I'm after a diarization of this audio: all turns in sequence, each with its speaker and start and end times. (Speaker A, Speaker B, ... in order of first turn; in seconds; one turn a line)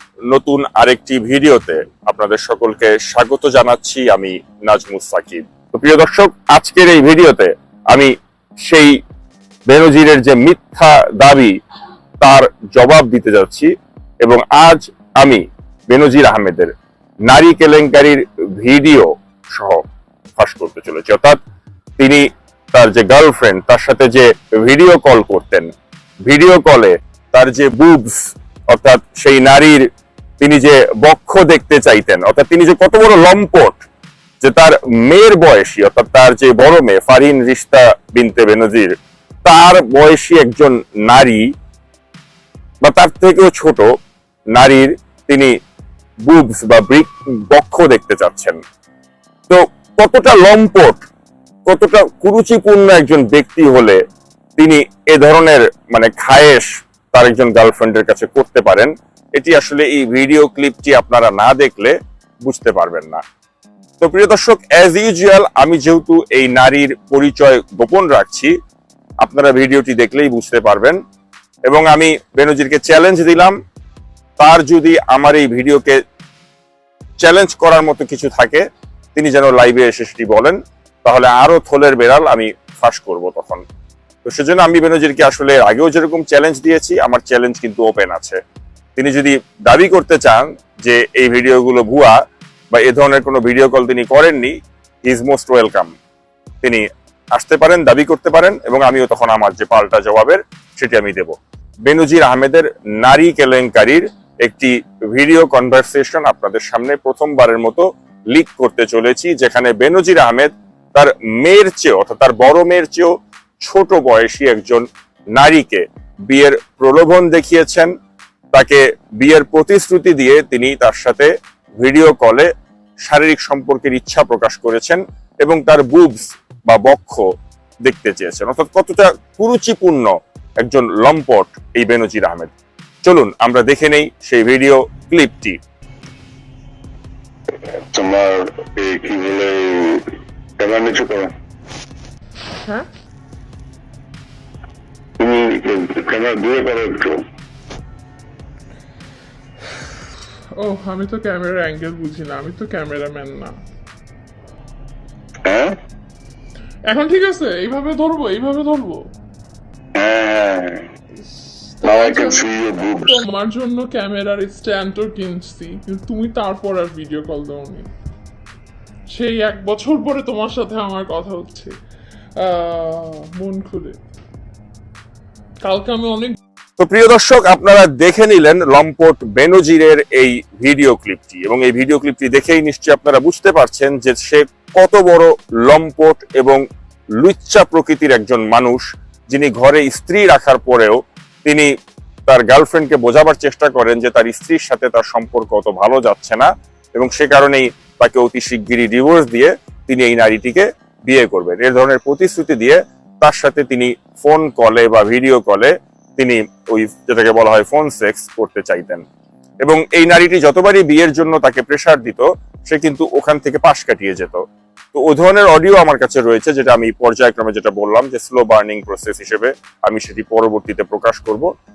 Speaker A: 0.3-8.1
Speaker A: 8.7-9.0
Speaker A: 9.7-11.6
Speaker A: 12.2-13.7
Speaker A: 14.2-16.7
Speaker A: 17.3-19.8
Speaker A: 20.4-21.4
Speaker A: 22.0-25.7
Speaker A: 26.3-29.9
Speaker A: 30.4-33.9
Speaker A: 34.4-41.5
Speaker A: 42.8-43.9
Speaker A: 44.6-45.5
Speaker A: 46.3-48.6
Speaker A: 49.5-51.1
Speaker A: 51.7-54.0
Speaker A: 54.6-62.0
Speaker A: 62.5-63.2
Speaker A: 64.0-68.5
Speaker A: 69.2-71.0
Speaker A: 71.7-73.5
Speaker A: 74.4-76.0
Speaker A: 77.2-78.6
Speaker A: 79.2-83.6
Speaker A: 84.2-88.4
Speaker A: 89.0-92.2
Speaker A: 92.7-94.5
Speaker A: 95.0-95.9
Speaker A: 96.6-114.8
Speaker A: 115.4-117.9
Speaker A: 118.5-122.5
Speaker A: 123.1-127.2
Speaker A: 127.8-132.5
Speaker A: 133.1-135.6
Speaker B: 137.9-140.1
Speaker B: 140.6-141.3
Speaker C: 142.6-142.9
Speaker B: 145.2-147.2
Speaker C: 150.6-153.6
Speaker B: 155.4-155.8
Speaker C: 156.8-159.1
Speaker B: 159.9-160.9
Speaker C: 161.7-167.9
Speaker B: 161.8-163.2
Speaker C: 169.1-171.7
Speaker C: 172.4-174.0
Speaker C: 175.6-176.4
Speaker A: 176.8-186.6
Speaker A: 187.2-191.7
Speaker A: 192.3-209.0
Speaker A: 209.6-214.4
Speaker A: 214.9-221.5